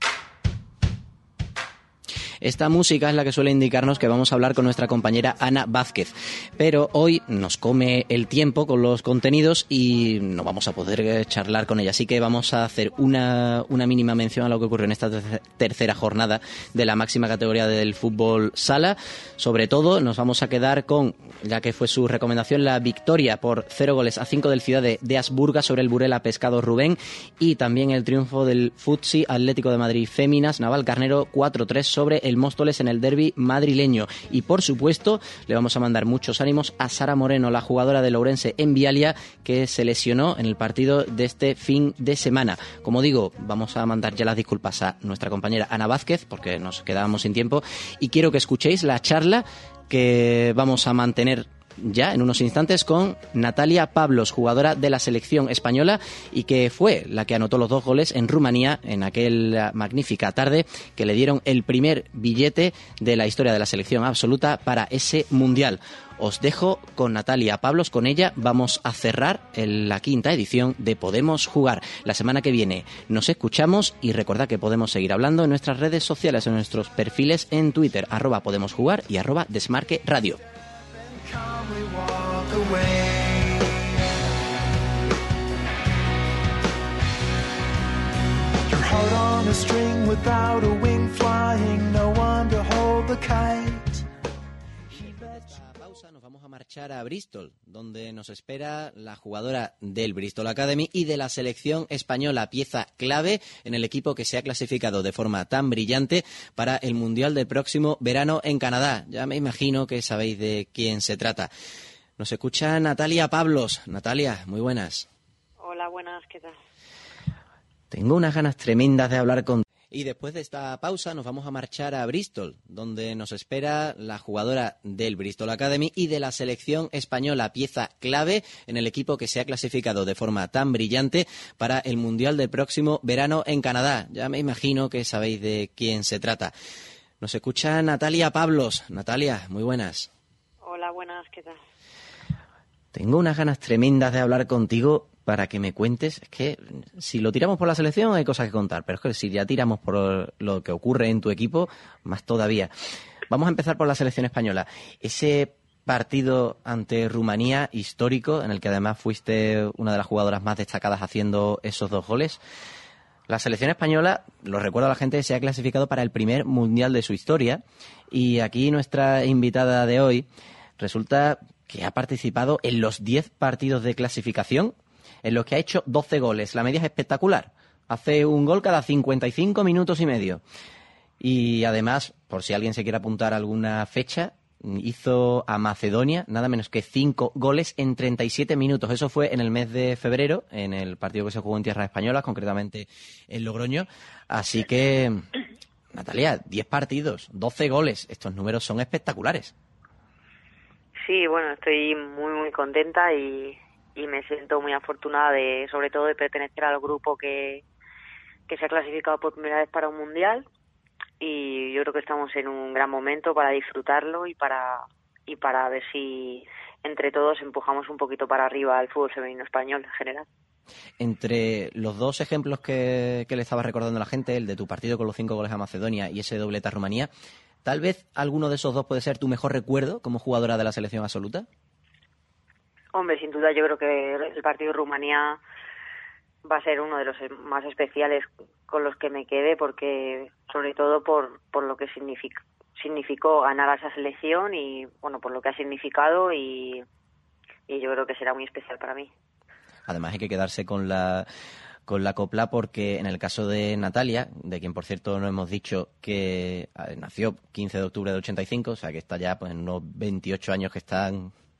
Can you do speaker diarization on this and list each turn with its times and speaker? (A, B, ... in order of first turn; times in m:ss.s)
0:02.4-1:20.4 A
1:21.1-1:24.0 B
1:28.7-1:34.0 B
1:34.9-1:51.5 A
1:52.2-1:55.1 A
1:55.6-1:56.5 C
1:57.9-2:16.5 A
2:17.2-2:20.1 A
2:20.6-2:21.6 C
2:22.9-2:32.7 A
2:33.3-2:42.4 A
2:43.3-2:50.2 A
2:50.8-3:00.4 A
3:01.2-3:15.3 A
3:15.9-3:19.5 A
3:21.0-3:27.6 C
3:28.5-3:30.4 C
3:31.2-3:40.2 C
3:41.0-3:47.1 A
3:47.6-3:51.4 A
3:52.9-3:55.4 C
3:56.4-4:06.8 C
4:07.7-4:09.1 C
4:09.9-4:11.3 A
4:11.9-4:21.3 A